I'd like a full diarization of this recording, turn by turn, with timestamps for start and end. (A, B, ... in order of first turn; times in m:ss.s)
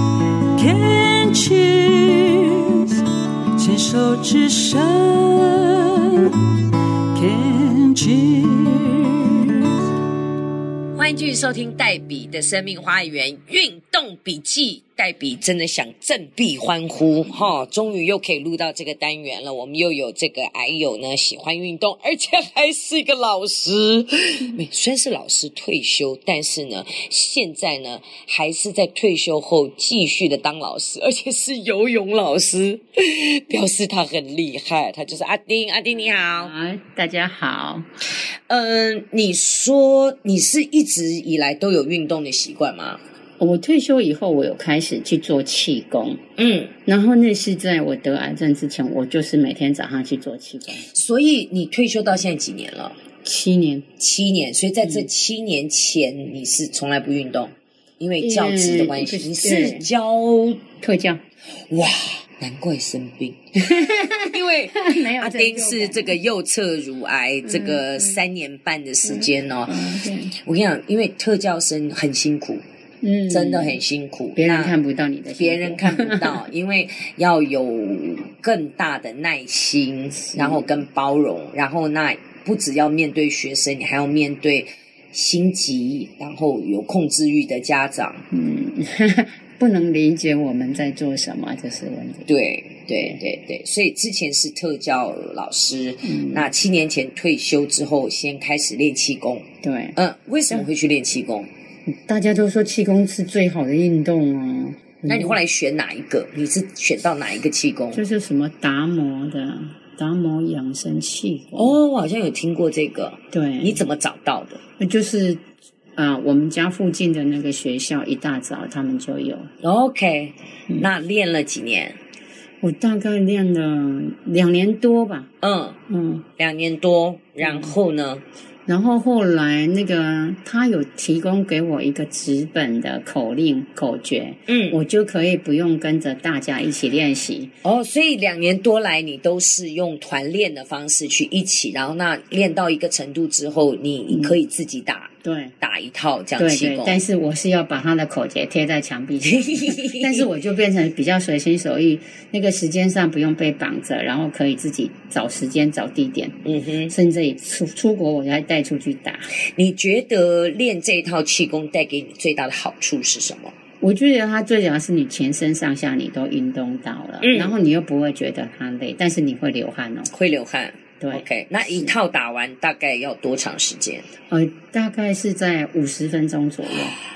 0:00.5-0:06.5 A
0:07.1-0:09.7 A
0:11.0-0:36.5 B
0:36.2-0:37.9 C
0:38.2-0:43.0 B
0:43.4-0:46.2 C
0:46.4-0:46.7 B
0:46.9-0:50.9 C
0:50.8-0:53.0 B
0:53.2-0:53.9 C
0:54.0-1:00.6 B
0:54.8-0:55.1 C
0:58.2-0:59.9 C
1:00.8-1:01.2 C
1:01.7-1:03.7 B
1:03.6-1:06.2 C
1:04.2-1:12.6 B
1:07.5-1:08.2 C
1:09.0-1:10.3 C
1:13.0-1:13.8 C
1:13.3-1:14.8 B
1:14.4-1:16.4 C
1:15.4-1:28.2 B
1:20.3-1:20.7 C
1:28.3-1:32.3 C
1:32.3-1:41.5 B
1:36.0-1:36.5 C
1:39.6-1:40.0 C
1:41.9-1:45.4 C
1:45.1-1:48.0 B
1:47.9-1:51.8 C
1:51.6-1:54.6 B
1:53.3-1:53.9 C
1:54.8-1:55.4 C
1:56.0-1:59.5 C
1:59.6-2:02.0 B
2:02.6-2:05.3 C
2:05.4-2:05.8 B
2:05.9-2:06.2 C
2:06.4-2:08.2 B
2:07.4-2:07.8 C
2:08.7-2:17.5 C
2:14.5-2:14.8 B
2:17.6-2:27.0 B
2:24.1-2:24.4 C
2:25.2-2:25.6 C
2:26.4-2:39.3 C
2:29.4-2:30.3 B
2:36.4-2:36.9 B
2:39.5-2:43.5 B
2:43.8-2:50.1 C
2:47.2-2:47.6 B
2:50.1-2:54.1 B
2:51.0-2:52.0 C
2:54.3-2:57.0 C